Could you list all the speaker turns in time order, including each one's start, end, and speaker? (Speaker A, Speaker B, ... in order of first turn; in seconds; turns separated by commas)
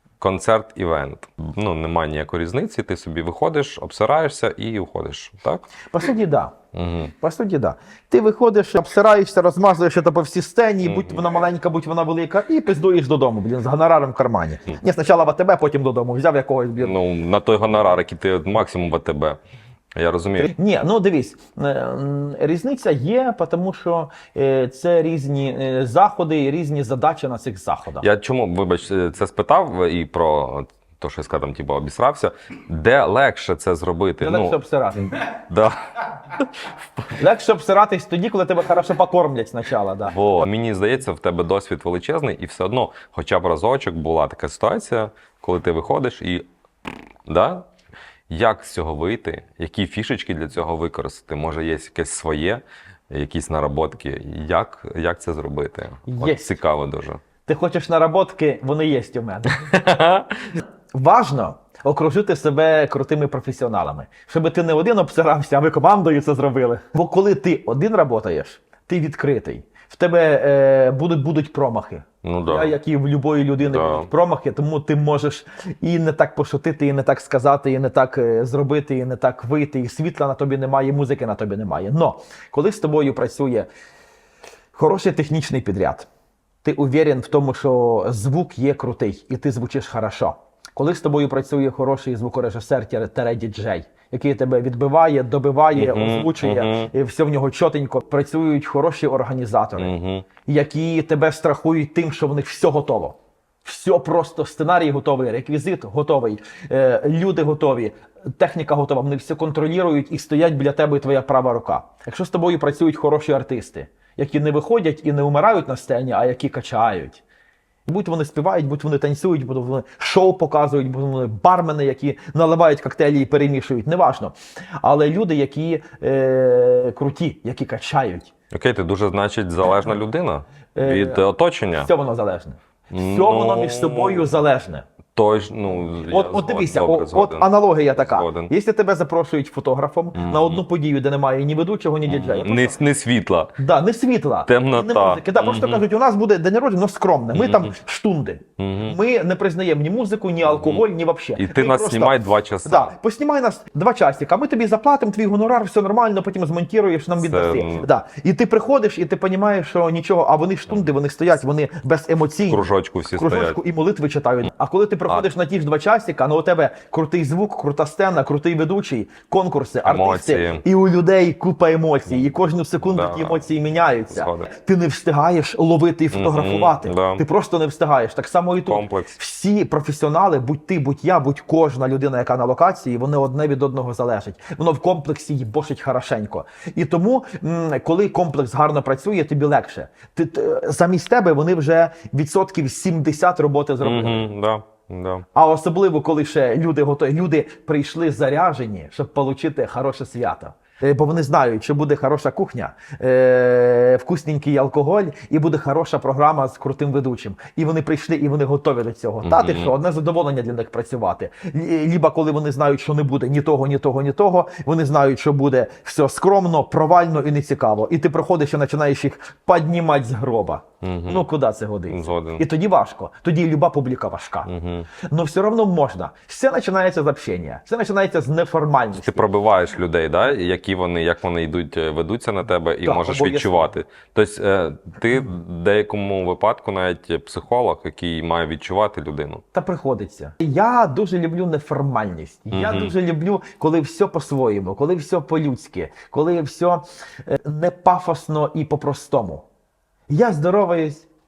Speaker A: 0.2-5.7, Speaker B: 5.9-6.5, Speaker A: 6.7-7.1, Speaker B: 7.2-17.0, Speaker A: 10.8-11.2, Speaker A: 16.8-19.4, Speaker A: 20.0-20.5, Speaker B: 20.4-28.1, Speaker A: 28.0-34.6, Speaker B: 34.2-35.2, Speaker A: 35.4-37.1, Speaker B: 37.1-40.1, Speaker A: 40.1-46.5, Speaker A: 47.3-47.7, Speaker A: 48.3-57.2, Speaker B: 56.1-56.6, Speaker B: 57.5-59.6, Speaker A: 59.6-60.5, Speaker B: 61.0-83.7, Speaker A: 72.2-72.8, Speaker A: 73.6-74.1, Speaker B: 84.7-86.1, Speaker B: 86.6-99.9, Speaker A: 95.7-96.9, Speaker A: 99.8-100.3, Speaker B: 100.5-117.2, Speaker B: 117.9-128.3, Speaker A: 128.5-131.9, Speaker B: 130.8-134.8, Speaker A: 132.9-134.3, Speaker A: 135.2-138.5, Speaker B: 136.0-142.8, Speaker A: 140.2-140.6, Speaker A: 142.1-143.5, Speaker B: 143.6-194.3, Speaker A: 144.5-145.8, Speaker A: 147.3-147.7, Speaker A: 148.6-149.0, Speaker A: 150.5-150.8, Speaker A: 151.4-152.9, Speaker A: 157.2-157.9, Speaker A: 162.5-163.6, Speaker A: 169.9-170.6, Speaker A: 172.8-173.4, Speaker A: 174.1-174.5, Speaker A: 176.1-177.2, Speaker A: 178.7-179.2, Speaker A: 193.8-195.2, Speaker B: 195.3-224.5, Speaker A: 209.2-209.7, Speaker A: 220.8-221.2, Speaker A: 221.9-222.4, Speaker A: 224.5-224.9, Speaker B: 225.1-229.3, Speaker A: 228.9-239.4, Speaker B: 232.8-233.7, Speaker B: 239.5-249.4, Speaker A: 242.5-242.9, Speaker B: 250.1-251.1